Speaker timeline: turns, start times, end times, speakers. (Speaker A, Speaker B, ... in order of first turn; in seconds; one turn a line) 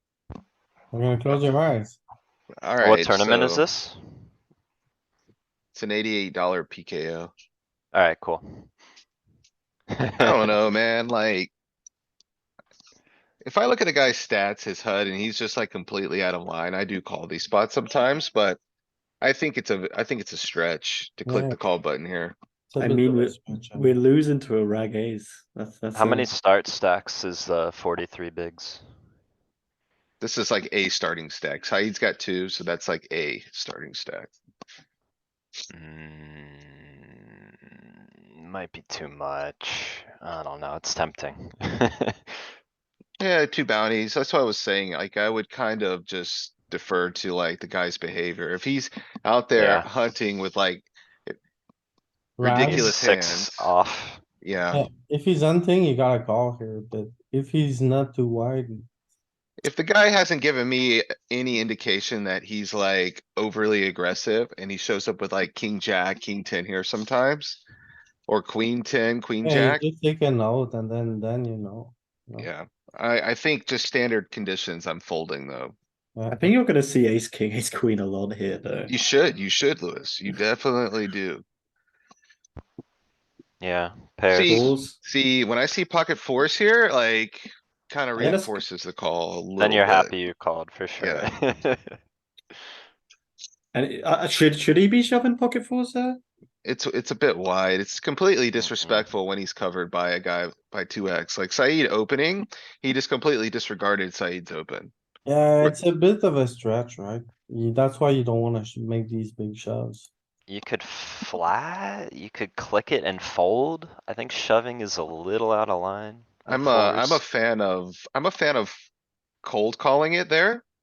Speaker A: 0.9-2.0
Speaker B: 2.6-3.6
Speaker C: 2.8-4.0
Speaker B: 5.7-7.3
Speaker C: 7.9-8.7
Speaker C: 9.9-10.6
Speaker B: 10.1-11.5
Speaker B: 13.4-18.6
Speaker B: 19.2-22.3
Speaker A: 21.2-21.6
Speaker A: 22.7-23.9
Speaker D: 22.8-26.3
Speaker C: 25.9-28.8
Speaker B: 30.2-34.3
Speaker C: 35.7-37.8
Speaker C: 38.3-42.3
Speaker B: 43.2-51.4
Speaker C: 49.5-49.9
Speaker A: 52.4-53.0
Speaker B: 52.4-53.7
Speaker C: 52.6-54.2
Speaker B: 54.4-54.9
Speaker A: 54.7-58.9
Speaker B: 59.6-67.6
Speaker B: 68.3-69.8
Speaker A: 69.4-72.5
Speaker B: 72.4-75.7
Speaker A: 76.2-76.5
Speaker D: 76.3-79.0
Speaker B: 78.9-81.4
Speaker C: 83.6-84.8
Speaker B: 84.3-90.1
Speaker D: 84.4-85.0
Speaker D: 88.2-88.6
Speaker C: 89.6-92.0
Speaker B: 91.0-91.3
Speaker D: 93.7-96.2
Speaker B: 96.6-104.9
Speaker C: 98.6-99.1
Speaker A: 105.2-110.1
Speaker C: 110.5-117.2
Speaker B: 116.5-118.8
Speaker B: 119.4-120.6